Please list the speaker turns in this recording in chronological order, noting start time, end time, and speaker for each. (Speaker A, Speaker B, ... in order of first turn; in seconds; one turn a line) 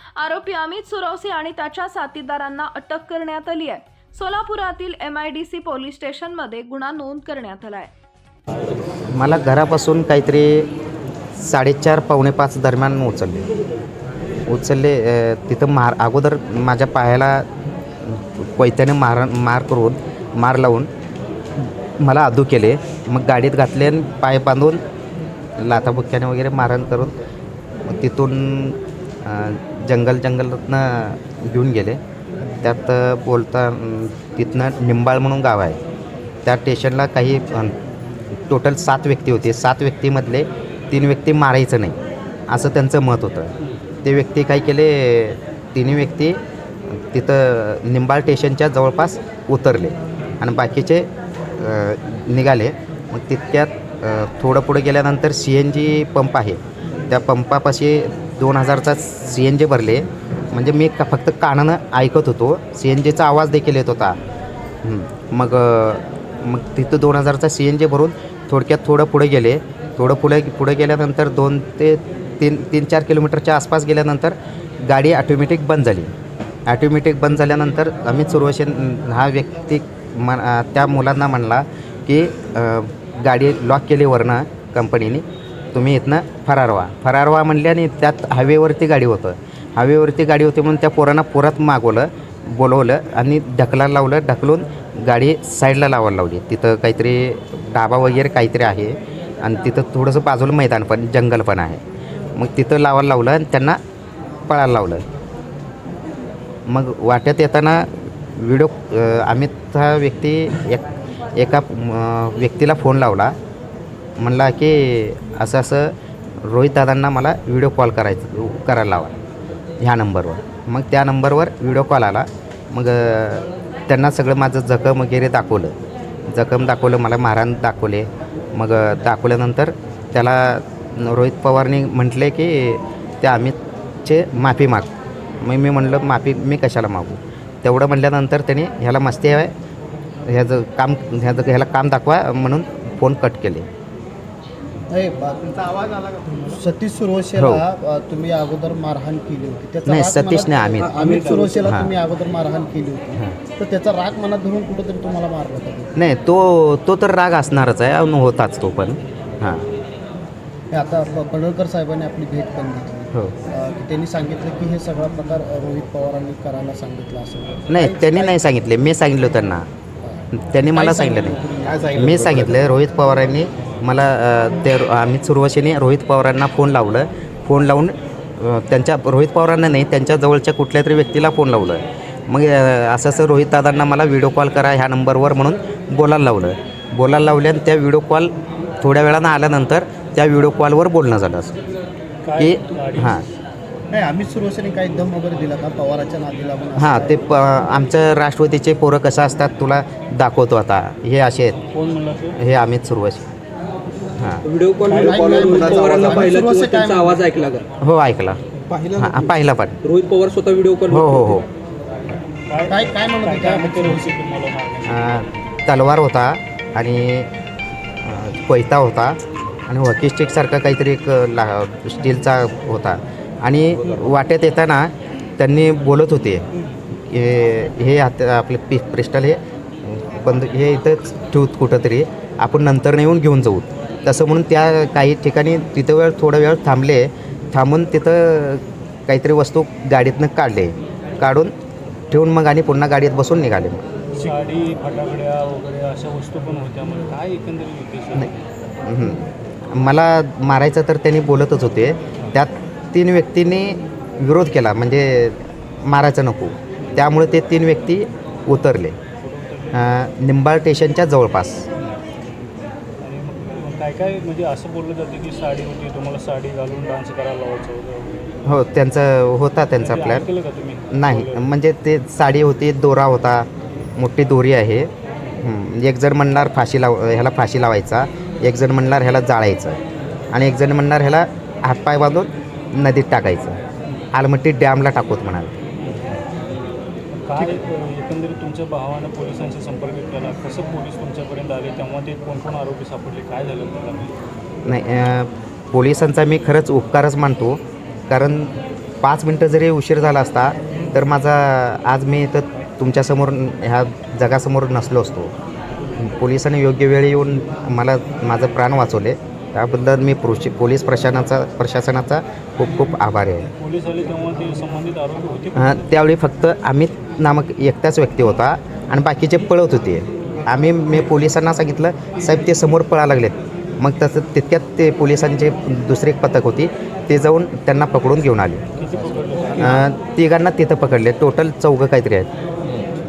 Speaker A: 0.2-7.9
Speaker B: 9.1-10.7
Speaker B: 11.4-13.4
Speaker B: 14.4-17.4
Speaker B: 18.0-20.9
Speaker B: 21.6-24.8
Speaker B: 25.6-27.1
Speaker B: 27.9-32.0
Speaker B: 32.6-35.8
Speaker B: 36.4-37.8
Speaker B: 38.5-42.0
Speaker B: 42.5-43.5
Speaker B: 44.0-46.4
Speaker B: 46.9-64.2
Speaker B: 64.8-76.1
Speaker B: 76.7-101.8
Speaker B: 102.3-103.8
Speaker B: 104.5-105.0
Speaker B: 106.7-113.3
Speaker B: 114.2-119.2
Speaker B: 119.8-125.7
Speaker B: 126.3-134.9
Speaker B: 135.4-139.5
Speaker B: 140.2-143.7
Speaker C: 144.9-155.9
Speaker B: 147.4-147.6
Speaker B: 149.8-151.0
Speaker D: 150.9-151.6
Speaker B: 151.6-151.9
Speaker B: 155.9-159.7
Speaker C: 160.7-168.4
Speaker B: 167.7-169.7
Speaker C: 170.0-172.6
Speaker B: 170.3-171.4
Speaker B: 171.9-191.6
Speaker D: 192.2-193.3
Speaker B: 192.4-193.2
Speaker C: 193.9-197.2
Speaker B: 196.8-201.6
Speaker D: 201.7-202.4
Speaker B: 202.3-203.3
Speaker B: 204.2-204.4
Speaker E: 204.4-207.7
Speaker D: 204.8-206.2
Speaker C: 204.9-207.2
Speaker B: 207.8-208.4
Speaker E: 208.7-209.2
Speaker B: 208.9-209.8
Speaker E: 209.8-211.4
Speaker B: 210.9-211.4
Speaker D: 212.5-215.3
Speaker C: 212.7-214.1
Speaker B: 214.8-217.3
Speaker B: 218.0-226.4
Speaker B: 227.1-241.5
Speaker B: 242.1-243.8
Speaker D: 244.2-248.4
Speaker B: 248.8-259.0
Speaker D: 259.2-259.9
Speaker B: 259.7-261.6
Speaker D: 263.0-268.4
Speaker B: 268.4-270.2
Speaker D: 269.8-271.5
Speaker B: 270.9-279.8
Speaker B: 280.3-283.6
Speaker B: 284.1-285.6
Speaker D: 287.1-294.2
Speaker B: 294.6-305.3
Speaker B: 305.9-313.5
Speaker D: 313.5-315.8
Speaker B: 315.5-328.6
Speaker D: 328.7-329.9
Speaker B: 329.6-332.3